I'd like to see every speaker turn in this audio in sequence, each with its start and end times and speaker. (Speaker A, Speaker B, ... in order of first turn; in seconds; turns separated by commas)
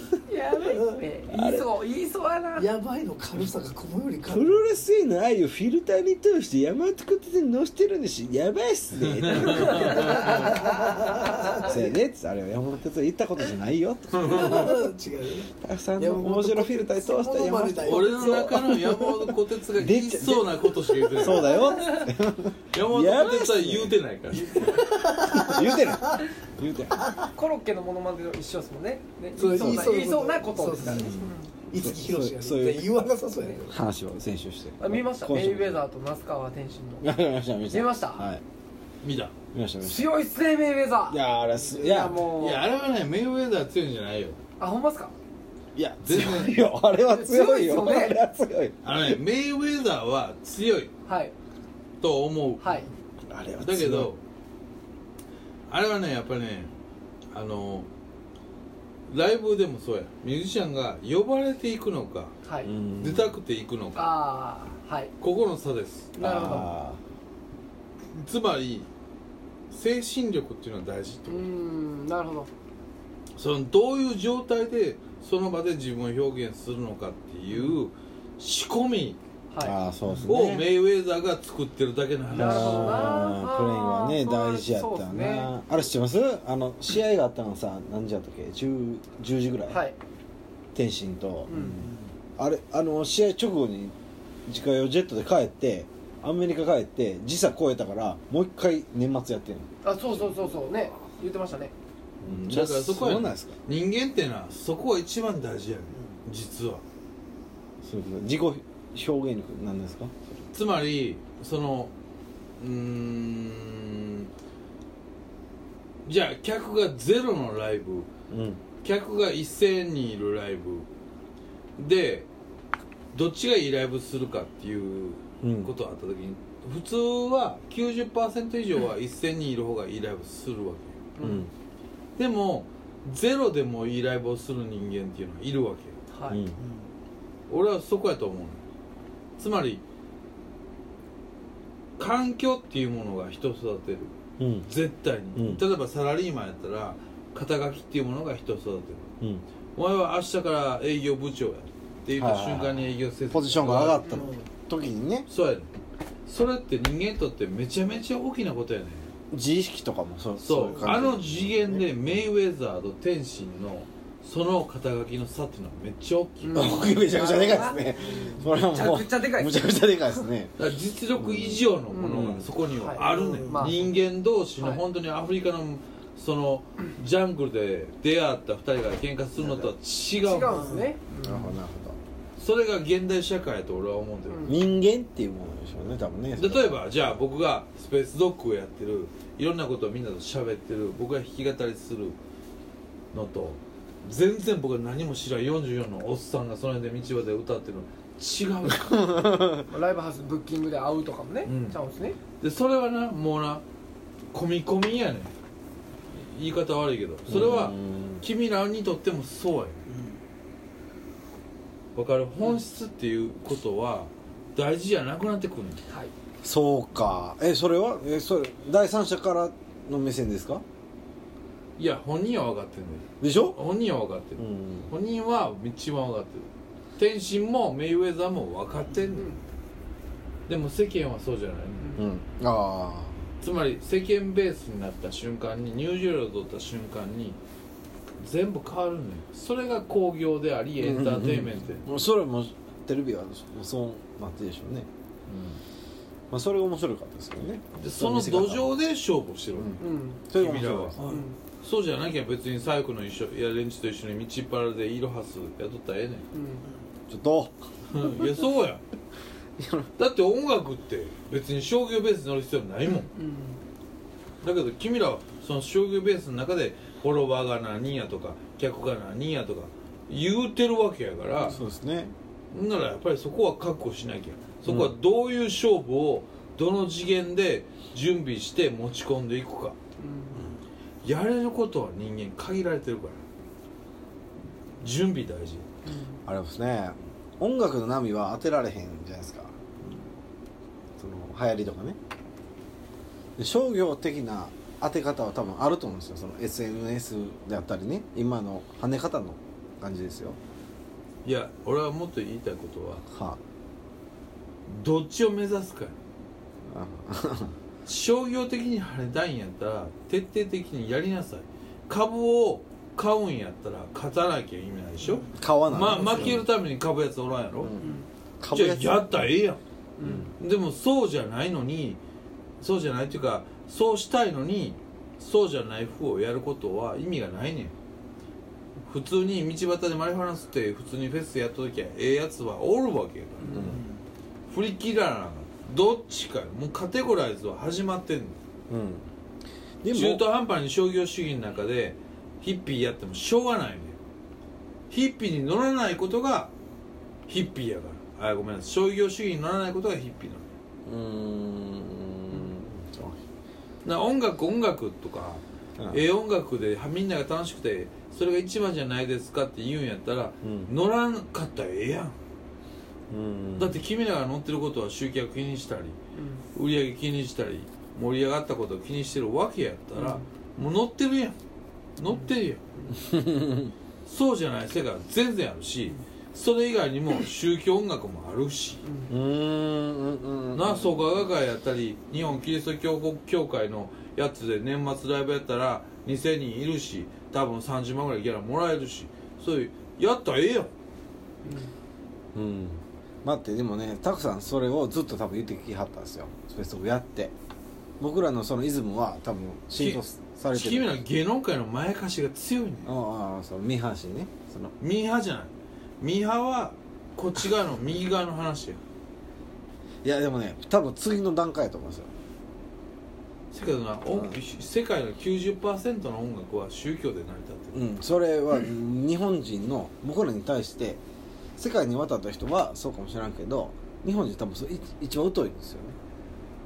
Speaker A: 0.2-2.7, Speaker B: 0.6-1.0, Speaker C: 1.3-1.7, Speaker B: 2.5-4.7, Speaker C: 4.3-10.7, Speaker D: 9.1-10.6, Speaker B: 10.0-11.8, Speaker C: 11.6-14.9, Speaker D: 14.1-14.7, Speaker B: 14.2-19.2, Speaker C: 15.6-18.6, Speaker D: 17.8-21.8, Speaker C: 19.8-24.4, Speaker D: 22.7-24.9, Speaker B: 24.8-26.2, Speaker C: 25.2-27.0, Speaker A: 27.2-31.5, Speaker B: 29.4-33.8, Speaker C: 29.6-29.9, Speaker C: 30.8-32.9, Speaker C: 33.7-35.8, Speaker A: 34.8-37.1, Speaker C: 37.0-38.4, Speaker A: 37.7-38.2, Speaker D: 39.0-39.3, Speaker C: 39.5-40.1, Speaker A: 39.8-41.2, Speaker C: 41.1-42.2, Speaker A: 41.7-42.6, Speaker D: 42.3-44.4, Speaker A: 44.6-45.1, Speaker C: 45.7-49.2, Speaker D: 46.0-46.5, Speaker A: 47.0-48.2, Speaker D: 48.8-50.9, Speaker A: 51.0-51.3, Speaker D: 52.0-52.8, Speaker A: 52.6-52.9, Speaker C: 53.3-54.1, Speaker D: 53.6-54.2, Speaker D: 55.7-56.7, Speaker D: 57.3-57.9, Speaker D: 59.1-62.3, Speaker A: 62.4-62.7, Speaker C: 62.6-63.4, Speaker D: 63.0-64.1, Speaker A: 63.9-65.1, Speaker D: 65.2-66.6, Speaker A: 66.2-66.7, Speaker C: 66.2-67.0, Speaker D: 68.1-68.9, Speaker D: 69.7-71.5, Speaker A: 71.3-72.5, Speaker D: 73.3-79.2, Speaker A: 79.5-79.8, Speaker C: 79.6-80.7, Speaker D: 80.2-83.3, Speaker A: 82.3-85.5, Speaker C: 82.3-89.8, Speaker A: 89.7-90.0, Speaker C: 90.7-93.9, Speaker A: 91.5-91.9, Speaker C: 94.5-100.3, Speaker A: 99.8-101.7, Speaker C: 102.2-103.5, Speaker D: 102.3-106.8, Speaker C: 107.8-110.4, Speaker D: 110.5-111.9, Speaker D: 112.6-114.3, Speaker D: 116.0-118.1, Speaker C: 118.3-118.6, Speaker D: 118.8-120.9, Speaker D: 121.8-122.3, Speaker D: 123.1-131.1, Speaker C: 125.4-125.7, Speaker A: 131.2-131.4, Speaker C: 131.2-131.5, Speaker D: 132.2-136.0, Speaker A: 136.1-136.4, Speaker C: 136.3-136.6, Speaker B: 136.6-136.9, Speaker D: 137.5-138.6, Speaker D: 139.4-139.8, Speaker D: 142.0-144.1, Speaker C: 144.4-144.7, Speaker D: 144.7-149.1, Speaker C: 145.3-145.6, Speaker D: 149.7-154.2, Speaker C: 152.1-155.3, Speaker B: 154.1-154.5, Speaker D: 155.3-155.7, Speaker D: 156.3-159.1, Speaker C: 159.3-162.2, Speaker D: 160.4-166.9, Speaker A: 166.4-169.6, Speaker C: 166.5-170.5, Speaker B: 167.8-168.5, Speaker D: 170.6-180.6, Speaker C: 171.2-172.5, Speaker A: 171.9-173.9, Speaker B: 173.0-173.8, Speaker A: 174.6-174.8, Speaker C: 179.3-179.7, Speaker A: 180.2-181.6, Speaker B: 180.5-180.9, Speaker C: 181.2-182.0, Speaker D: 182.4-184.5, Speaker A: 184.3-184.6, Speaker C: 184.4-186.8, Speaker D: 186.4-192.2, Speaker D: 193.1-199.3, Speaker C: 199.2-199.5, Speaker A: 199.7-202.2, Speaker D: 201.4-201.8, Speaker D: 202.4-203.6, Speaker D: 204.3-205.3, Speaker D: 206.1-209.8, Speaker C: 207.3-208.3, Speaker B: 209.9-210.2, Speaker D: 211.9-215.8, Speaker C: 216.4-220.6, Speaker D: 221.8-229.3, Speaker C: 223.2-223.6, Speaker C: 224.4-224.9, Speaker A: 229.1-229.4, Speaker D: 230.5-232.0, Speaker C: 231.9-233.3, Speaker D: 233.4-237.4, Speaker D: 238.2-241.8, Speaker C: 240.8-244.9, Speaker D: 245.3-245.6, Speaker C: 246.3-248.7, Speaker D: 247.8-249.8, Speaker C: 249.5-251.0, Speaker A: 249.8-250.2, Speaker D: 250.3-256.2, Speaker A: 251.1-251.4, Speaker A: 256.3-256.6, Speaker C: 257.1-257.5, Speaker D: 257.9-258.8, Speaker C: 259.6-259.9, Speaker D: 260.0-263.1, Speaker A: 263.1-263.6, Speaker D: 264.4-271.6, Speaker C: 271.4-272.1, Speaker D: 272.5-279.8, Speaker C: 274.6-274.9, Speaker A: 280.0-280.5, Speaker D: 281.0-283.2, Speaker D: 284.8-285.7, Speaker A: 285.9-286.2, Speaker C: 286.2-289.5, Speaker C: 291.0-292.0, Speaker C: 293.4-300.4, Speaker D: 301.2-303.0, Speaker C: 303.1-303.4, Speaker D: 304.7-305.9, Speaker C: 306.7-307.5, Speaker D: 307.9-317.7, Speaker C: 315.3-316.5, Speaker A: 315.9-316.3, Speaker C: 317.6-319.3, Speaker A: 317.8-318.1, Speaker D: 318.5-319.6, Speaker A: 320.0-320.3, Speaker C: 320.0-320.3, Speaker D: 320.4-322.0, Speaker D: 322.6-327.7, Speaker D: 328.9-333.7, Speaker C: 333.5-333.8, Speaker B: 333.5-334.0, Speaker D: 334.5-338.4, Speaker C: 338.7-339.0, Speaker C: 339.8-340.2, Speaker D: 339.9-344.0, Speaker D: 344.9-346.5, Speaker D: 347.3-350.5, Speaker C: 350.9-353.2, Speaker D: 353.8-362.1, Speaker C: 360.4-360.7, Speaker C: 363.1-363.8, Speaker D: 363.6-366.0, Speaker A: 366.1-366.4, Speaker D: 366.5-371.4, Speaker A: 369.9-370.2, Speaker D: 372.0-372.7, Speaker C: 372.9-373.7, Speaker D: 374.1-378.8, Speaker A: 378.8-379.1, Speaker C: 379.1-381.2, Speaker D: 380.5-390.7, Speaker A: 391.4-391.7, Speaker C: 392.3-397.3, Speaker C: 398.0-401.0, Speaker D: 399.7-402.9, Speaker C: 402.8-404.7, Speaker D: 404.8-408.8, Speaker C: 410.0-412.1, Speaker D: 413.5-417.7, Speaker C: 414.1-414.4, Speaker C: 417.7-421.0, Speaker C: 421.6-425.9